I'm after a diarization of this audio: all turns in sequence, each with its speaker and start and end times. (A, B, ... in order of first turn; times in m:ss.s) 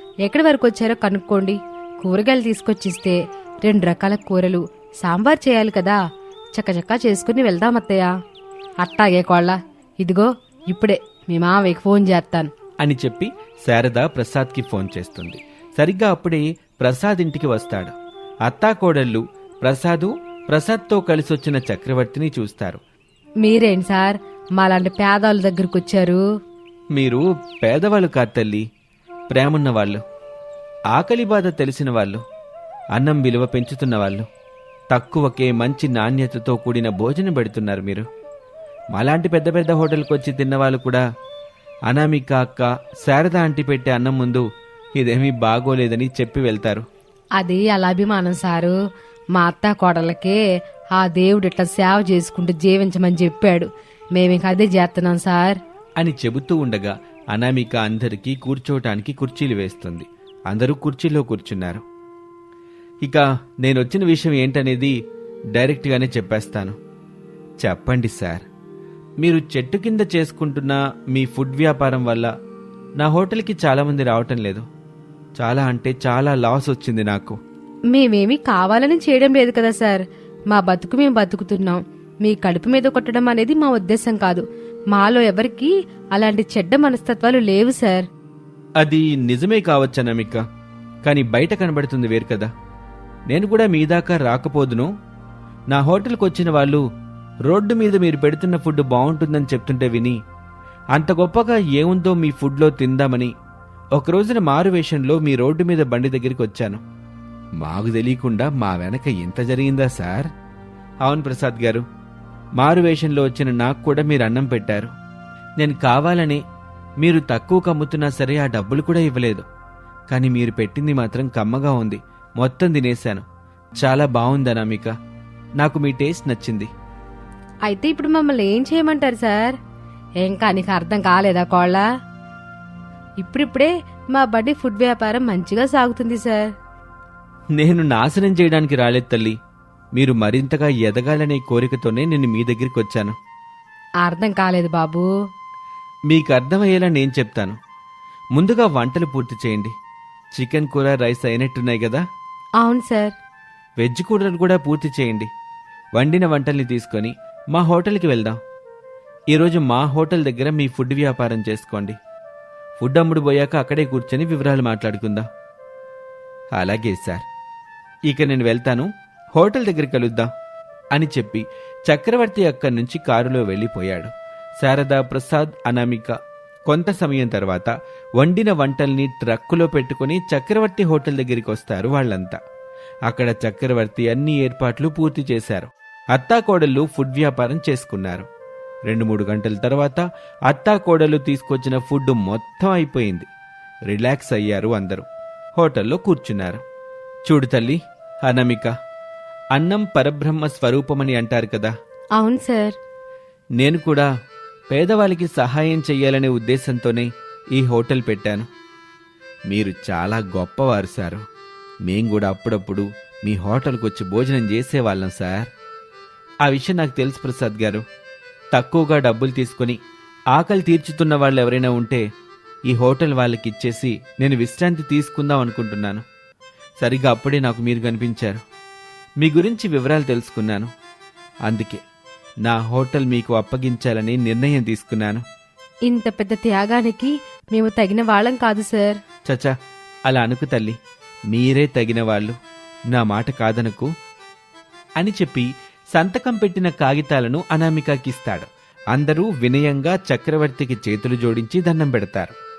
0:00.2-0:06.0 A
0:06.6-0:08.1 A
0:08.8-0:12.5 A
0:12.8-0:18.0 B
0:18.5-0:22.8 B
0:23.4-0:26.2 A
0:26.9-0:28.7 B
0:29.3-0:30.0 B
0:30.9-0:32.2 B
0:33.0-0:34.3 B
0:34.9-0:38.1 B
0:38.9-0:41.0 B
0:41.9-0:44.4 B
0:45.0-0:46.9 B
0:47.4-0:48.8 A
0:49.4-0:50.4 A
0:51.0-0:55.6 A
0:56.0-1:01.8 B
1:03.0-1:05.0 B
1:05.6-1:06.8 B
1:07.6-1:08.4 B
1:09.2-1:12.3 B
1:13.0-1:14.7 B
1:15.4-1:17.4 B
1:17.9-1:28.1 A
1:28.8-1:30.4 B
1:31.0-1:32.5 B
1:33.3-1:34.9 B
1:35.7-1:36.8 B
1:37.5-1:40.2 B
1:41.0-1:43.3 B
1:44.0-1:46.8 B
1:47.6-1:50.3 B
1:51.0-1:51.8 B
1:52.6-1:54.9 B
1:55.6-1:56.4 B
1:57.0-1:59.5 B
2:00.1-2:03.2 B
2:03.8-2:05.0 B
2:05.6-2:06.7 B
2:07.7-2:09.6 A
2:10.2-2:11.8 A
2:13.2-2:16.5 A
2:17.6-2:19.4 B
2:20.0-2:23.2 B
2:24.0-2:25.1 A
2:26.1-2:27.6 B
2:28.4-2:29.7 B
2:30.4-2:32.0 B
2:32.6-2:33.1 A
2:33.8-2:35.3 B
2:36.0-2:38.4 B
2:39.3-2:42.0 B
2:42.8-2:45.3 B
2:46.6-2:47.3 B
2:48.1-2:50.3 B
2:50.9-2:56.2 B
2:56.7-3:02.4 B
3:03.1-3:08.3 B
3:08.9-3:13.3 B
3:13.9-3:15.1 B
3:15.6-3:16.6 B
3:17.3-3:18.7 B
3:19.6-3:21.7 B
3:22.2-3:22.8 A
3:23.6-3:24.1 B
3:24.7-3:28.5 B
3:29.5-3:31.2 B
3:31.9-3:35.5 B
3:36.4-3:37.8 B
3:38.5-3:39.8 B
3:40.3-3:42.0 B
3:42.7-3:46.0 B
3:46.8-3:48.4 B
3:49.2-3:50.7 B
3:51.5-3:51.8 B
3:52.5-3:55.2 B
3:55.9-3:59.0 A
4:00.1-4:00.8 B
4:01.3-4:02.4 B
4:02.9-4:03.9 B
4:05.0-4:12.4 B